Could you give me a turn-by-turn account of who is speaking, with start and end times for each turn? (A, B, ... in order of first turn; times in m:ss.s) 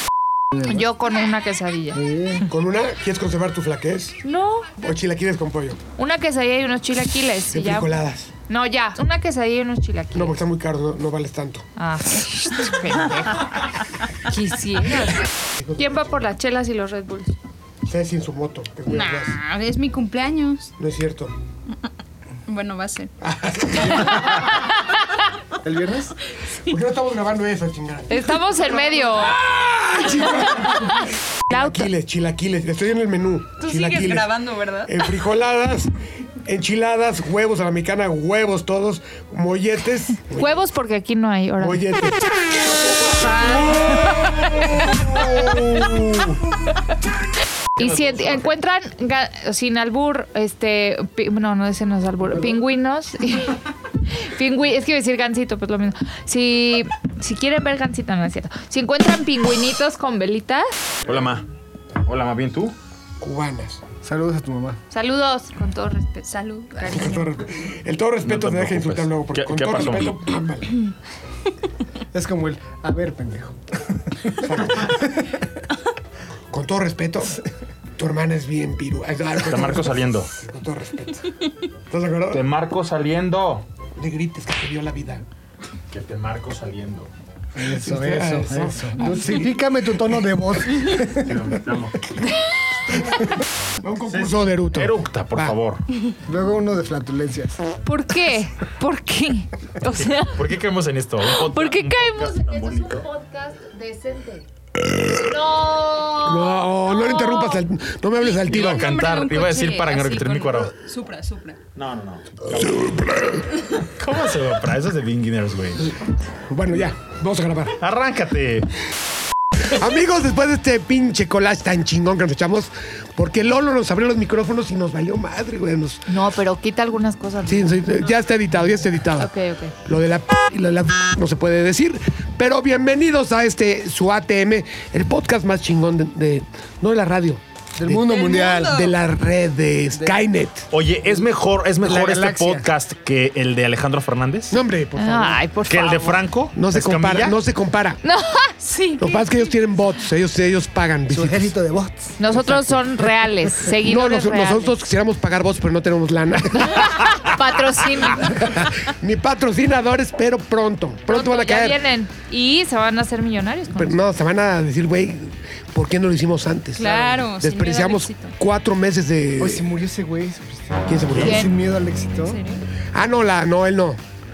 0:00.7-0:02.0 A
0:02.0-0:02.4 B
0:02.5-0:04.2 C
0:04.2-0:04.7 A
0:04.8-0:05.8 C
0:06.0-0:07.9 A
0:07.5-0:08.3 C
0:08.5-0:10.4 A
0:10.1-0:11.7 C
0:11.8-0:13.5 A
0:14.2-0:15.2 A
0:15.6-0:16.2 C
0:15.8-0:17.3 A
0:17.8-0:19.4 C
0:18.9-0:20.7 D
0:20.8-0:21.3 C
0:22.5-0:23.1 D
0:23.2-0:24.5 C
0:25.6-0:26.2 B
0:26.6-0:35.9 C
0:28.1-0:29.4 A
0:31.5-0:31.9 A
0:33.6-0:34.9 D
0:34.4-0:34.7 A
0:36.4-0:40.6 C
0:40.3-0:41.8 A
0:41.6-0:42.2 C
0:43.4-0:44.0 A
0:43.5-0:46.4 E
0:47.8-1:00.7 A
0:47.8-0:48.5 E
1:01.1-1:01.4 E
1:02.1-1:02.8 E
1:03.2-1:03.8 C
1:04.0-1:04.8 B
1:04.9-1:07.2 A
1:06.3-1:07.1 D
1:06.9-1:10.9 C
1:08.2-1:10.1 E
1:12.1-1:13.6 B
1:14.3-1:15.2 B
1:14.4-1:15.0 C
1:16.5-1:17.4 C
1:18.0-1:21.3 C
1:19.5-1:20.3 E
1:21.9-1:22.4 C
1:22.3-1:23.6 E
1:24.0-1:25.2 C
1:25.9-1:27.1 E
1:27.6-1:31.4 B
1:27.7-1:29.8 C
1:31.2-1:32.2 E
1:33.8-1:35.6 C
1:34.1-1:35.8 E
1:36.3-1:37.6 B
1:37.8-1:40.4 A
1:40.0-1:43.0 E
1:41.4-1:44.5 A
1:45.1-1:47.6 A
1:46.2-1:48.8 C
1:48.5-1:50.7 E
1:48.7-1:51.6 D
1:51.8-1:55.9 E
1:56.5-1:57.8 C
1:57.8-1:58.7 E
1:59.7-2:06.1 C
2:06.1-2:07.9 A
2:07.5-2:09.3 C
2:09.2-2:09.8 A
2:09.8-2:20.7 C
2:17.8-2:18.9 B
2:18.2-2:18.7 D
2:20.7-2:24.6 E
2:21.8-2:22.7 B
2:24.5-2:25.4 C
2:25.0-2:26.2 A
2:25.7-2:27.4 E
2:26.5-2:28.0 C
2:28.0-2:29.2 A
2:29.0-2:31.5 C
2:31.1-2:32.2 B
2:32.2-2:34.7 A
2:32.3-2:37.0 C
2:36.5-2:38.4 A
2:38.2-2:41.8 C
2:41.1-2:44.0 A
2:43.7-2:49.7 C
2:46.8-2:48.3 D
2:49.4-2:52.4 B
2:50.9-2:51.5 C
2:51.2-2:51.5 A
2:52.3-2:52.6 D
2:52.9-2:54.0 C